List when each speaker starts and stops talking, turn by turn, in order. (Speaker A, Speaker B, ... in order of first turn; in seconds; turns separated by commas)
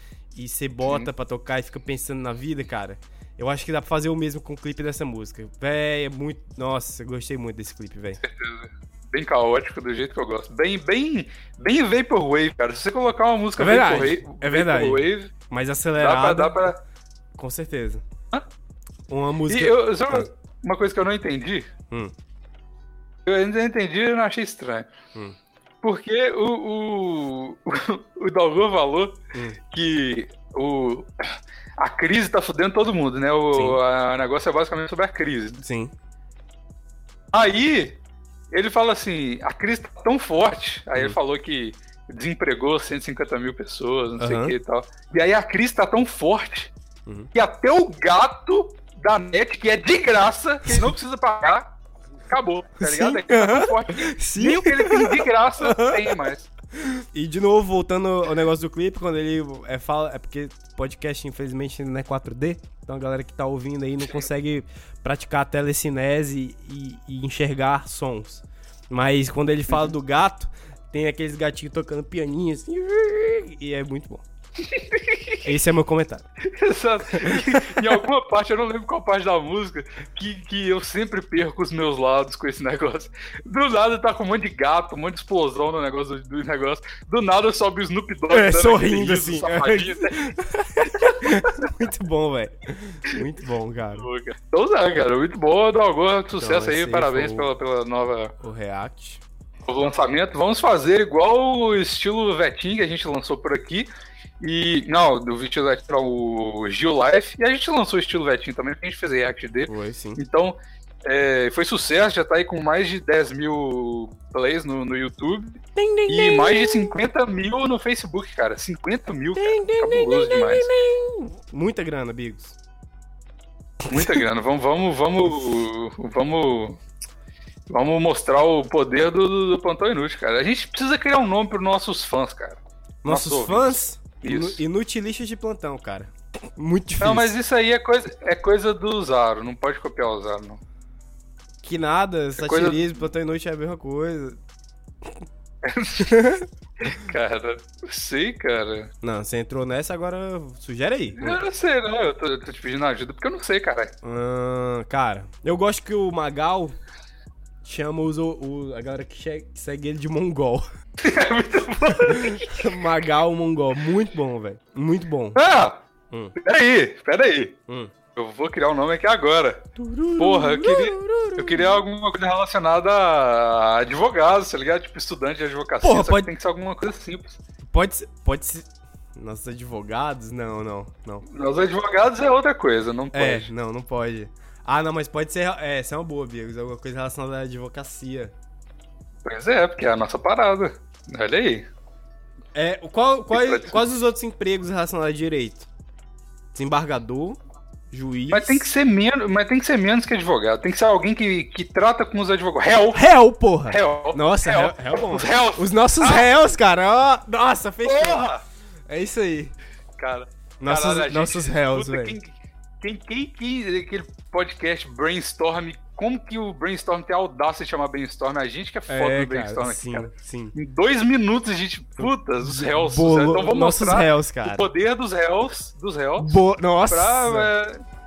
Speaker A: 0.3-8.2, Speaker B: 8.2-15.3, Speaker A: 13.6-16.7, Speaker B: 16.0-16.8, Speaker A: 17.4-18.0, Speaker A: 19.1-20.3, Speaker B: 19.5-21.7, Speaker B: 23.3-24.9, Speaker B: 25.8-29.2, Speaker A: 29.3-29.6, Speaker B: 29.7-31.1, Speaker B: 31.8-35.6, Speaker A: 33.5-33.8, Speaker A: 35.6-35.9, Speaker B: 37.3-38.0, Speaker B: 38.5-46.7, Speaker A: 44.2-44.5, Speaker B: 47.3-51.7, Speaker A: 50.7-50.9, Speaker B: 52.3-56.5, Speaker A: 52.8-56.2, Speaker A: 56.8-74.2, Speaker B: 74.7-75.4, Speaker A: 75.5-76.2, Speaker B: 76.5-90.3, Speaker A: 77.1-77.9, Speaker A: 88.3-94.1, Speaker B: 90.9-91.3, Speaker B: 94.0-98.3, Speaker A: 96.4-97.5, Speaker A: 98.4-99.2, Speaker B: 99.7-103.9, Speaker B: 104.4-120.7, Speaker A: 109.7-110.2, Speaker A: 115.8-116.9, Speaker A: 119.4-122.6, Speaker B: 123.9-126.8, Speaker A: 123.9-124.2, Speaker B: 127.7-134.6, Speaker A: 133.0-137.3, Speaker B: 137.0-140.6, Speaker A: 141.6-144.4, Speaker B: 142.4-142.8, Speaker B: 145.6-146.2, Speaker A: 146.0-146.5, Speaker B: 146.8-148.9, Speaker A: 149.0-151.4, Speaker B: 151.2-153.9, Speaker A: 154.0-156.8, Speaker A: 157.6-160.7, Speaker B: 161.0-162.7, Speaker A: 161.9-165.4, Speaker B: 165.4-165.8, Speaker B: 166.4-167.6, Speaker B: 168.2-169.7, Speaker A: 169.8-171.8, Speaker B: 170.2-177.4, Speaker A: 175.8-176.3, Speaker A: 177.7-181.2, Speaker B: 181.3-183.5, Speaker A: 183.1-188.3, Speaker B: 189.2-191.7, Speaker A: 192.6-195.7, Speaker B: 193.3-193.8, Speaker A: 196.5-197.4, Speaker A: 197.9-198.7, Speaker B: 198.3-203.1, Speaker A: 202.9-208.3, Speaker B: 203.7-206.3, Speaker B: 207.8-208.4, Speaker A: 208.9-209.6, Speaker B: 210.0-226.4, Speaker A: 210.6-212.2, Speaker A: 218.9-220.5, Speaker A: 222.0-224.7, Speaker A: 226.2-227.5, Speaker B: 226.9-227.8